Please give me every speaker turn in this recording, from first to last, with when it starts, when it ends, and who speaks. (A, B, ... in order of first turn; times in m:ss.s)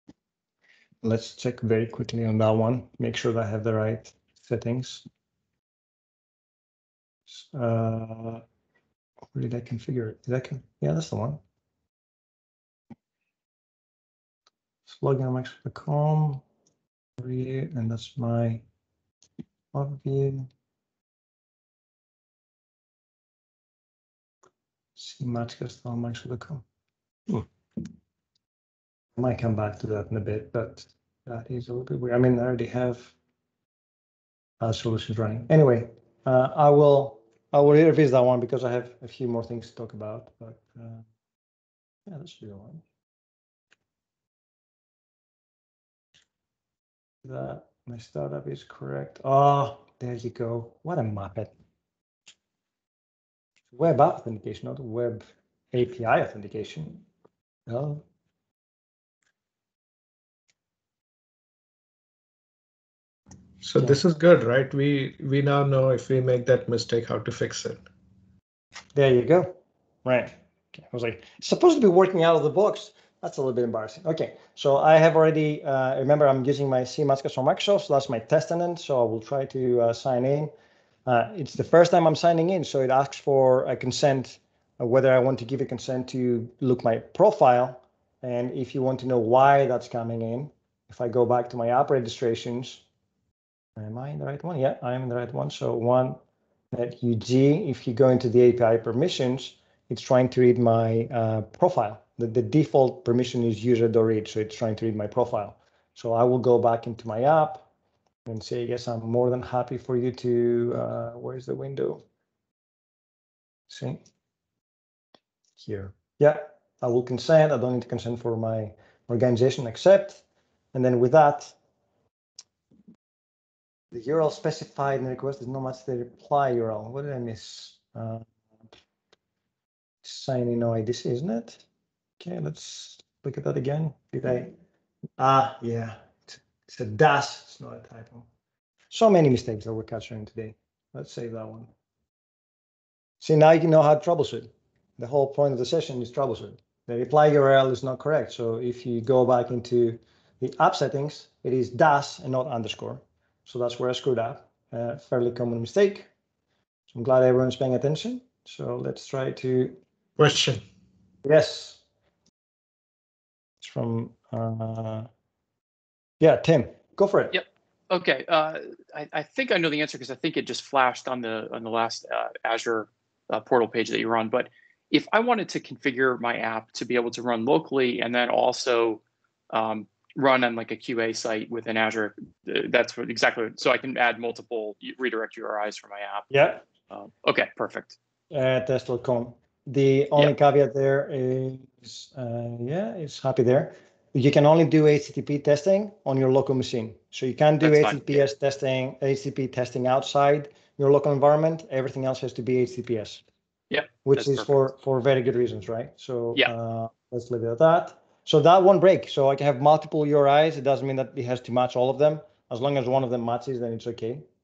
0:01.0-0:05.0 A
0:07.3-0:08.4 A
0:09.3-0:11.4 A
0:14.9-0:16.4 A
0:17.2-0:18.6 A
0:19.7-0:20.5 A
0:25.0-0:26.6 A
0:29.2-0:33.1 A
0:34.6-0:41.0 A
0:42.1-0:42.8 A
0:47.2-0:51.5 A
0:53.7-0:57.0 A
0:57.7-0:58.0 A
1:03.6-1:07.8 B
1:08.9-1:20.5 A
1:21.0-1:32.8 A
1:33.8-1:36.2 A
1:36.7-1:47.6 A
1:48.2-1:52.0 A
1:53.7-1:54.0 A
1:55.6-2:00.2 A
2:00.7-2:01.5 A
2:03.9-2:08.2 A
2:10.0-2:11.6 A
2:12.2-2:14.5 A
2:15.2-2:18.2 A
2:18.9-2:21.7 A
2:23.2-2:36.1 A
2:36.9-2:39.8 A
2:40.2-2:40.6 B
2:41.2-2:41.8 A
2:43.6-2:45.1 A
2:46.2-2:47.3 A
2:47.3-3:06.3 C
3:06.3-3:06.6 A
3:06.9-3:08.0 C
3:08.3-3:23.2 A
3:17.6-3:18.2 C
3:23.7-3:24.5 C
3:24.0-3:34.2 A